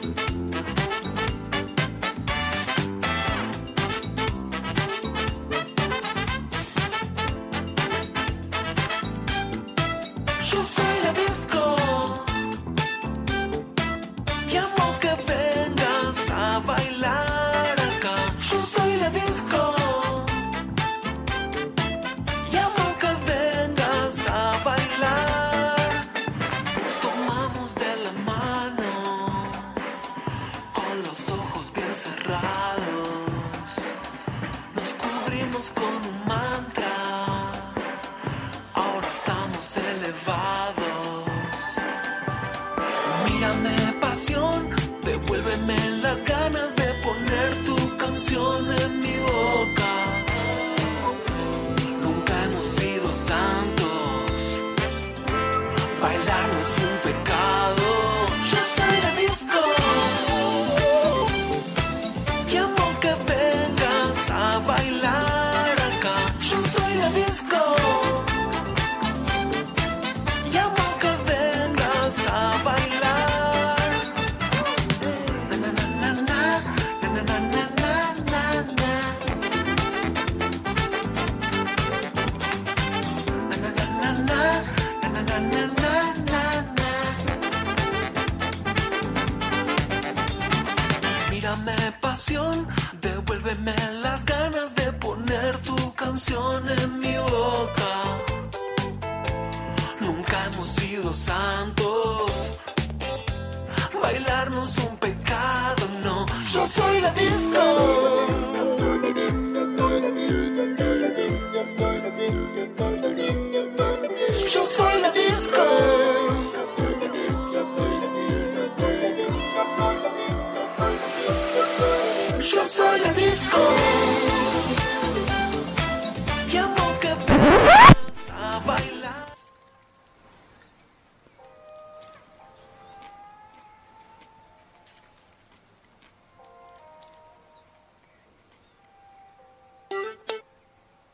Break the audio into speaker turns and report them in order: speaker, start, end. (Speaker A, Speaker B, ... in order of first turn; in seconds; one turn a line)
Speaker A: 10.4-12.4
Speaker A: 14.4-20.4
Speaker A: 22.4-26.1
Speaker A: 26.7-29.8
Speaker A: 30.7-33.7
Speaker A: 34.7-37.8
Speaker A: 38.7-41.8
Speaker A: 43.0-50.3
Speaker A: 52.0-54.6
Speaker A: 55.9-61.0
Speaker A: 62.5-68.4
Speaker A: 70.4-74.1
Speaker A: 75.5-79.2
Speaker A: 83.5-87.2
Speaker A: 91.2-98.2
Speaker A: 100.0-102.6
Speaker A: 103.9-108.5
Speaker A: 114.3-116.5
Speaker A: 122.4-124.5
Speaker A: 126.5-129.3